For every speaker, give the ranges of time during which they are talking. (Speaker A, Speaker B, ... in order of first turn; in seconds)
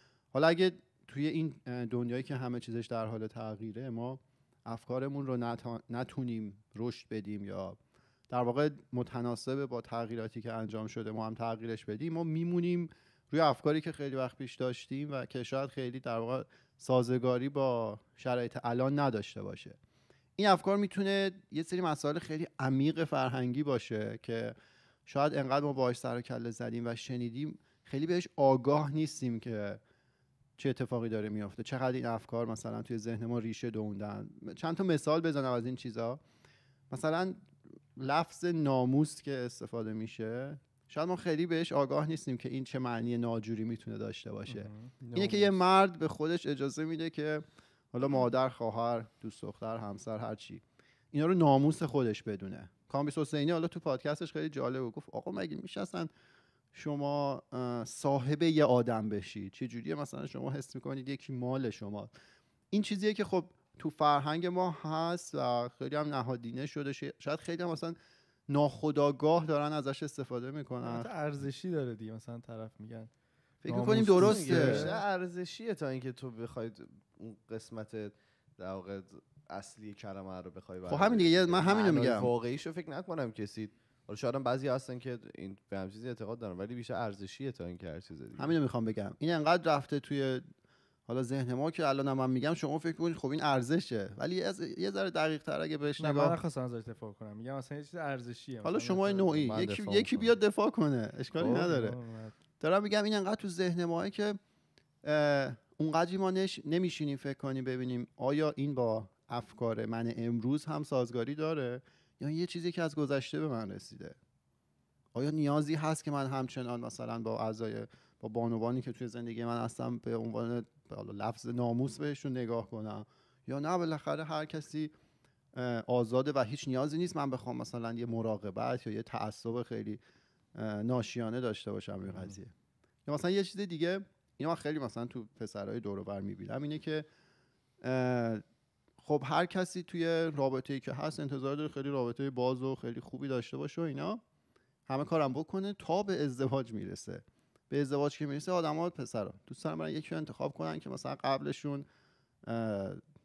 Speaker A: 0.3-7.8, 8.3-19.8, 20.4-24.5, 25.1-29.8, 30.6-36.2, 36.9-56.1, 56.7-62.1, 62.7-68.0, 68.5-71.1, 73.6-75.0, 80.9-82.3, 88.3-90.4, 91.1-96.4, 98.6-102.0, 102.6-104.4, 105.0-114.2, 115.1-124.9, 125.5-130.0, 130.5-132.5, 133.1-137.1, 137.8-138.4, 139.0-144.2, 144.9-151.8, 152.4-153.0
Speaker B: 44.5-44.9, 70.8-73.1, 73.7-75.0, 96.0-99.5, 101.4-102.3
Speaker C: 45.0-45.5, 74.1-88.5, 99.4-100.3